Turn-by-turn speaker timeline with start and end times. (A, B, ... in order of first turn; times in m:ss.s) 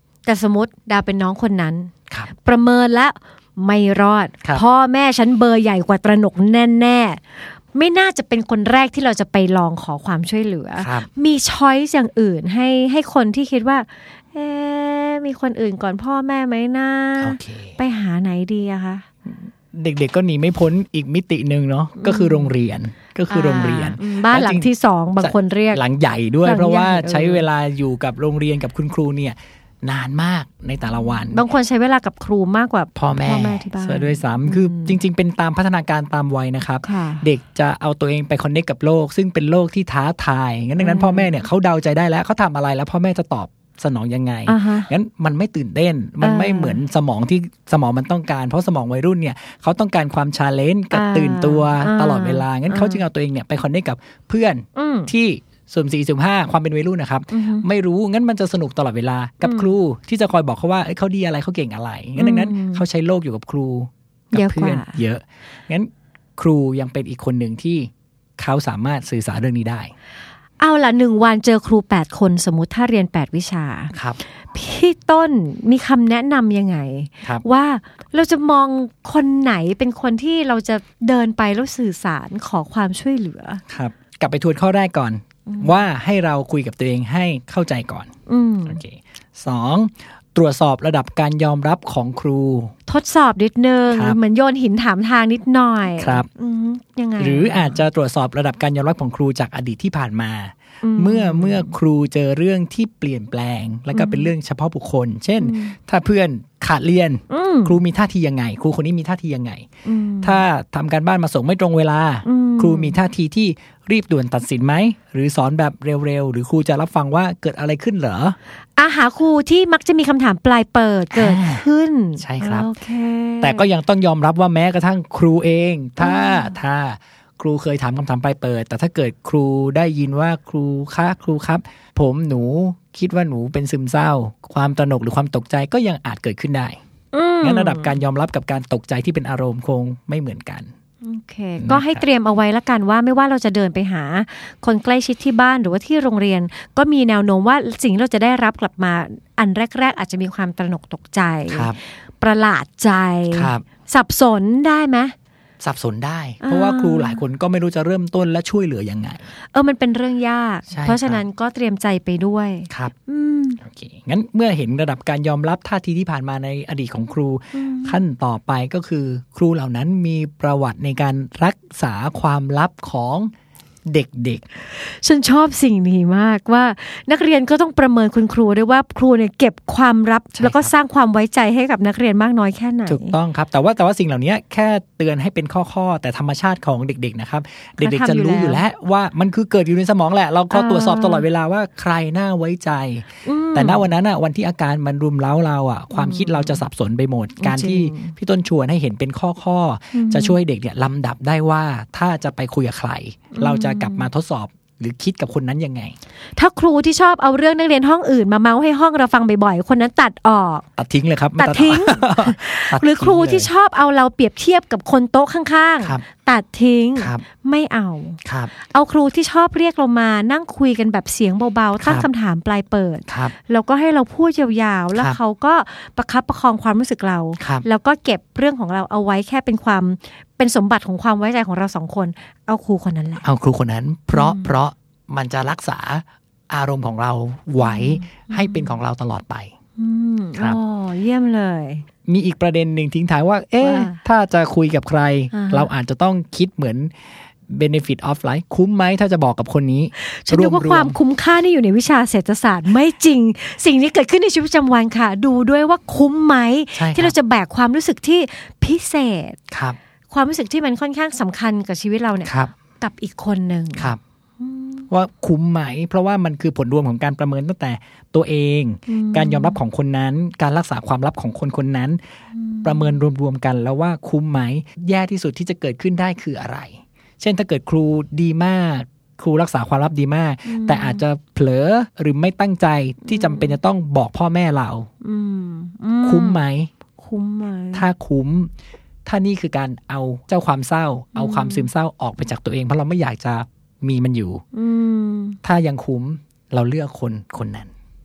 0:00.2-0:07.2 A
0:07.7-0:19.1 A
0:10.8-0:11.1 B
0:17.2-0:17.8 B
0:19.3-0:24.7 B
0:22.0-0:22.5 A
0:23.3-0:25.8 A
0:25.2-0:31.4 B
0:26.4-0:27.5 A
0:31.3-0:35.0 A
0:33.0-1:09.9 B
0:36.8-0:37.3 A
0:40.8-0:41.3 A
0:44.5-0:44.9 A
0:46.2-0:46.8 A
0:50.9-0:53.0 A
0:54.8-0:55.1 A
0:57.3-0:57.7 A
0:59.4-0:59.7 A
1:02.2-1:02.8 A
1:04.3-1:05.0 A
1:10.6-1:14.0 A
1:13.9-1:14.2 B
1:14.5-1:23.6 A
1:23.7-1:28.1 B
1:25.5-1:25.8 A
1:28.3-1:28.8 A
1:28.7-1:32.7 B
1:32.9-1:37.8 A
1:33.9-1:34.2 B
1:36.0-1:36.3 B
1:37.2-1:49.7 B
1:40.8-1:41.8 A
1:43.9-1:44.3 A
1:45.4-1:45.7 A
1:47.3-1:47.8 A
1:49.8-1:50.4 A
1:50.2-1:58.4 B
1:52.2-1:53.0 A
1:58.8-2:03.7 A
2:01.1-2:01.7 B
2:02.2-2:02.7 B
2:03.4-2:16.8 B
2:06.0-2:06.6 A
2:17.1-2:18.0 A
2:17.4-2:20.7 B
2:21.0-2:35.1 A
2:21.6-2:22.0 B
2:31.5-2:31.8 B
2:33.3-2:33.6 B
2:35.6-2:39.2 B
2:36.4-2:37.2 A
2:39.5-2:43.6 A
2:40.7-2:41.2 B
2:43.6-2:53.3 B
2:47.5-2:48.0 A
2:53.9-2:54.4 B
2:54.8-3:03.2 A
3:00.4-3:00.7 B
3:02.9-3:26.0 B
3:07.8-3:08.6 A
3:10.5-3:11.3 A
3:13.2-3:13.9 A
3:15.9-3:16.6 A
3:17.4-3:18.1 A
3:19.9-3:20.4 A
3:23.3-3:24.1 A
3:26.4-3:30.7 A
3:30.8-3:33.5 B
3:31.4-3:53.2 A
3:37.0-3:37.2 B
3:38.2-3:38.5 B
3:41.8-3:42.1 B
3:43.1-3:43.3 B
3:47.4-3:47.6 B
3:53.2-3:59.5 B
3:54.1-3:54.5 A
3:57.6-3:58.8 A
3:59.8-4:01.8 A
4:02.1-4:06.9 B
4:03.6-4:04.0 A
4:05.3-4:05.7 A
4:07.5-4:11.0 B
4:10.0-4:19.4 A
4:16.8-4:17.2 B
4:19.5-4:19.8 B
4:20.1-4:24.9 A
4:22.3-4:22.5 B
4:24.9-4:32.0 B
4:28.9-4:29.6 A
4:32.4-4:33.0 A
4:32.6-4:44.9 B
4:40.5-4:41.0 A
4:43.0-4:43.6 A
4:45.0-4:46.4 A
4:46.0-4:46.7 B
4:47.0-4:47.9 A
4:47.7-4:48.5 B
4:49.1-4:54.4 B
4:51.2-4:51.7 A
4:54.5-4:55.4 A
4:55.4-4:57.7 B